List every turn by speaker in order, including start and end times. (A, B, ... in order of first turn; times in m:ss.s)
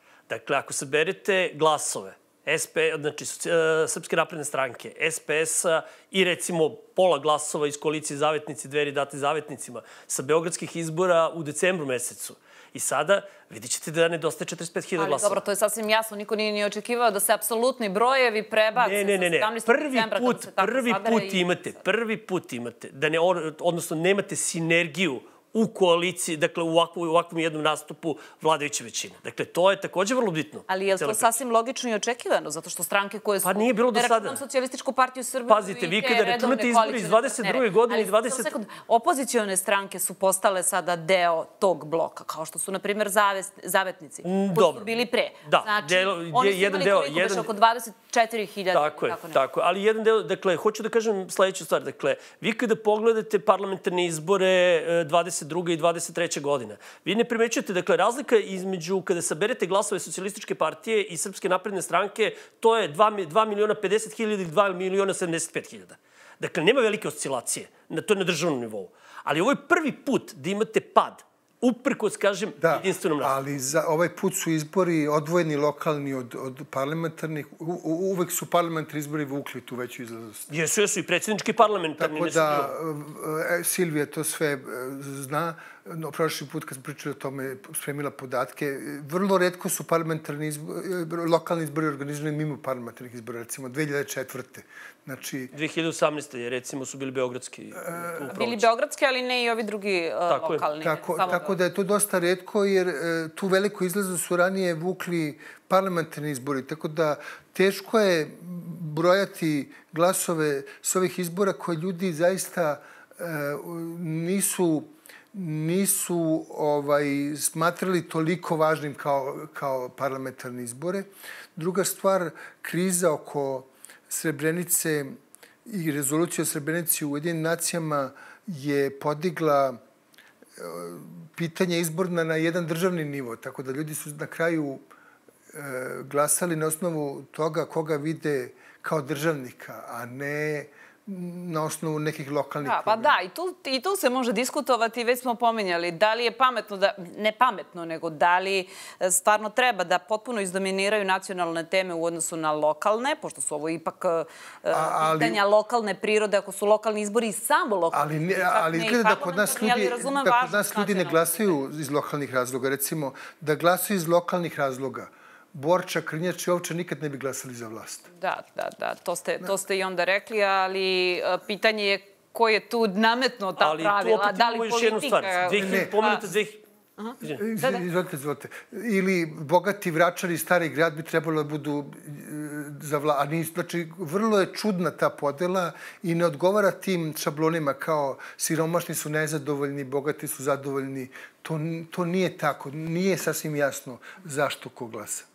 0:00.3-0:15.4 A
0:15.0-0:21.4 B
0:18.8-0:31.4 A
0:30.7-0:49.4 B
0:33.4-0:34.4 A
0:35.5-0:38.5 A
0:44.2-0:44.9 A
0:45.4-0:47.5 A
0:48.7-1:13.4 A
1:12.6-1:20.5 C
1:20.5-1:22.7 A
1:22.0-1:35.5 C
1:35.5-1:38.6 A
1:37.8-1:38.4 C
1:38.3-1:41.6 B
1:40.3-1:40.6 A
1:40.8-2:09.8 C
2:10.6-2:14.9 C
2:15.5-2:23.2 C
2:22.6-2:41.6 B
2:34.7-2:35.4 C
2:37.9-2:48.1 C
2:48.1-2:56.2 B
2:53.6-2:56.6 A
2:55.6-2:56.0 C
2:57.0-2:57.8 B
2:57.2-3:15.3 C